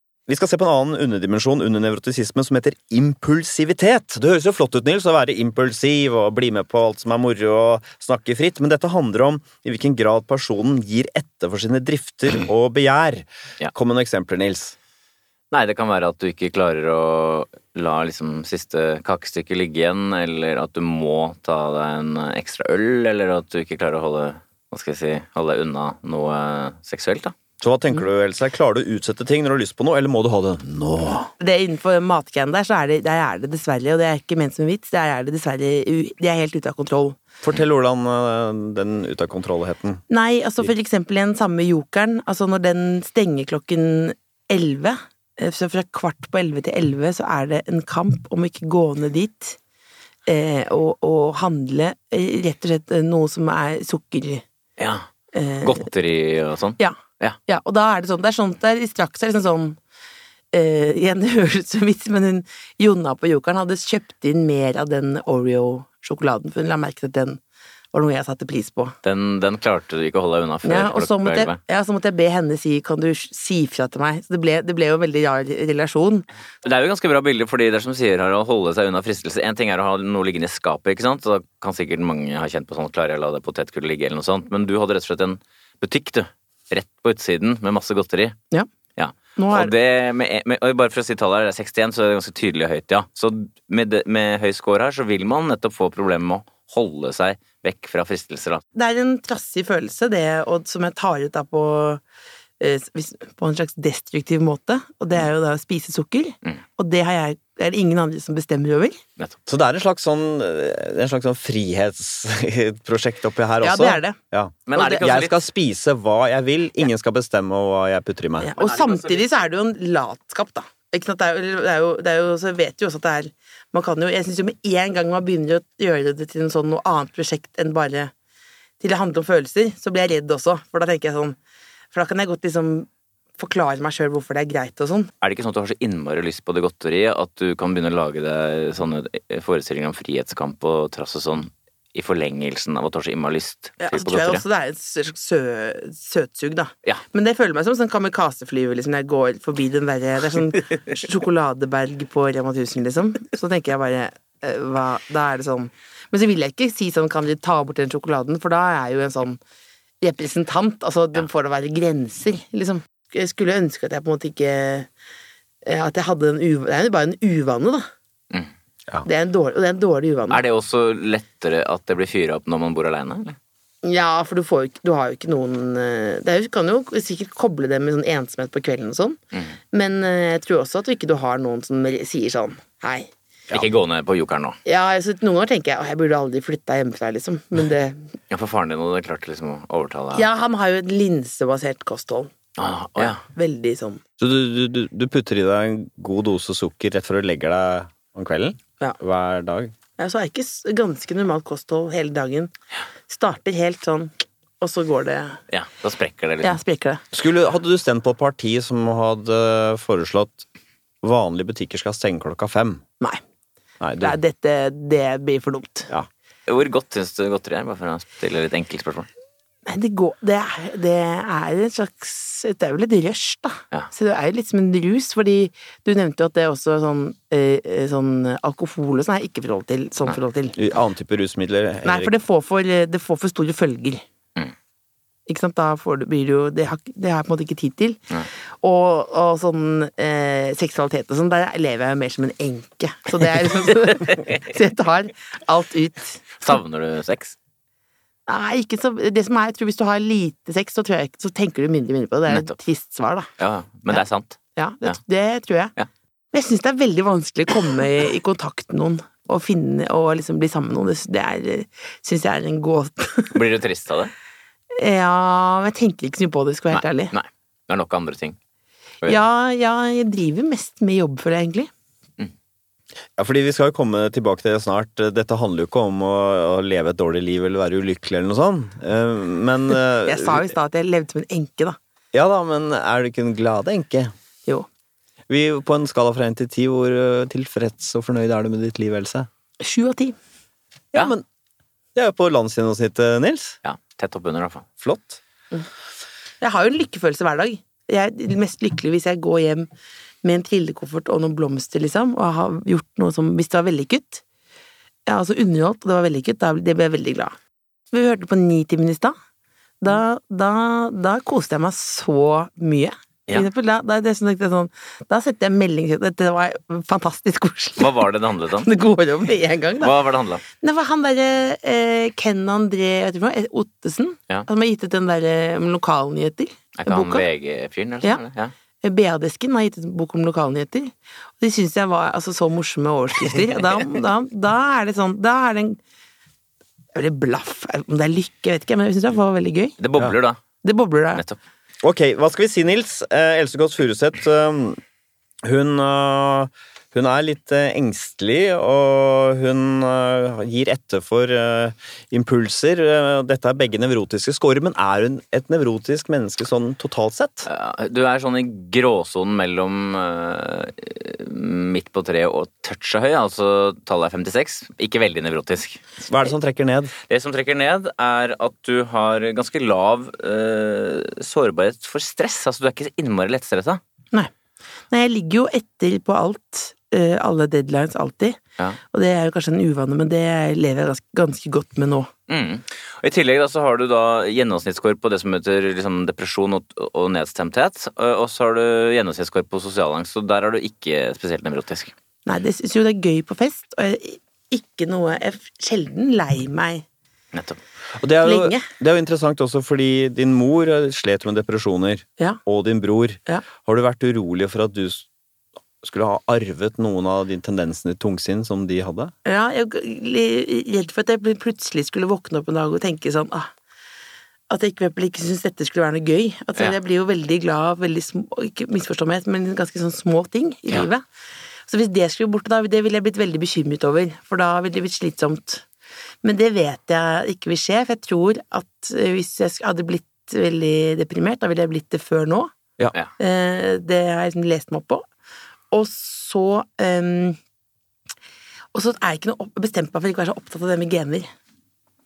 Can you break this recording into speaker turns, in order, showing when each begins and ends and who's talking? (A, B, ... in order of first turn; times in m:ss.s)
0:00.3-0:14.7 A
0:15.5-0:27.3 B
0:27.6-0:31.3 A
0:31.4-0:37.2 C
0:37.4-0:40.0 A
0:40.1-0:49.6 C
0:50.2-0:54.4 C
0:54.8-0:55.1 B
0:55.3-0:55.9 C
0:55.6-0:57.4 B
0:56.8-0:59.8 C
1:00.5-1:07.4 C
1:07.9-1:09.0 C
1:09.0-1:11.6 B
1:10.6-1:16.3 C
1:16.6-1:28.4 B
1:29.0-1:38.6 B
1:29.4-1:29.7 C
1:38.7-1:42.0 C
1:42.6-1:49.0 C
1:49.5-1:58.5 A
1:53.6-1:54.2 C
1:54.7-1:55.4 B
1:58.4-2:08.1 C
1:58.6-1:59.0 B
2:08.8-2:11.4 C
2:11.9-2:15.1 C
2:15.2-2:24.4 B
2:23.8-2:39.4 C
2:40.0-2:44.9 C
2:45.6-2:47.9 C
2:49.0-2:50.4 C
2:50.3-2:53.4 B
2:53.8-2:59.2 C
2:59.7-3:03.1 C
3:03.5-3:04.6 B
3:04.6-3:08.0 C
3:08.3-3:10.2 B
3:10.1-3:12.3 C
3:12.6-3:13.2 B
3:13.0-3:14.0 C
3:14.2-3:19.7 A
3:20.0-3:22.5 C
3:23.1-3:25.4 C
3:25.5-3:26.6 B
3:26.4-3:27.0 C
3:27.1-3:30.4 A
3:31.0-3:32.8 A
3:33.8-3:34.2 A
3:34.0-3:35.9 C
3:36.5-3:39.1 B
3:39.6-3:50.6 C
3:50.6-3:52.1 A
3:51.8-3:54.0 C
3:55.3-4:06.6 C
4:06.4-4:07.3 B
4:08.3-4:13.3 C
4:12.3-4:12.5 B
4:13.4-4:15.0 B
4:14.6-4:15.7 C
4:16.3-4:23.4 C
4:23.3-4:24.1 B
4:24.7-4:27.1 C
4:26.7-4:28.4 B
4:29.0-4:31.7 C
4:33.2-4:40.4 A
4:40.0-4:41.8 C
4:42.1-4:44.1 A
4:45.3-4:49.3 A
4:49.6-4:50.2 C
4:50.9-4:51.2 A
4:51.9-4:53.6 A
4:53.6-4:54.6 B
4:54.8-4:55.2 A
4:56.4-4:59.7 C
5:00.2-5:04.2 C
5:05.1-5:07.4 C
5:07.9-5:09.1 C
5:09.8-5:19.9 C
5:17.8-5:18.7 B
5:19.8-5:20.4 B
5:20.6-5:27.2 C
5:26.8-5:28.5 B
5:28.8-5:35.8 C
5:36.9-5:39.8 C
5:39.8-5:40.4 B
5:40.6-5:41.2 C
5:41.8-5:44.8 A
5:45.4-5:57.5 A
5:57.4-6:05.8 B
6:06.1-6:06.9 A
6:07.1-6:13.8 B
6:14.9-6:18.4 C
6:18.9-6:22.1 C
6:22.3-6:31.9 B
6:32.2-6:36.8 C
6:37.3-6:37.6 B
6:38.0-6:45.0 A
6:38.2-6:38.7 C
6:45.8-6:49.1 A
6:49.2-6:53.5 C
6:54.5-7:01.0 C
7:01.7-7:05.6 C
7:06.2-7:12.5 C
7:13.2-7:15.0 C
7:15.7-7:17.4 C
7:18.7-7:21.3 C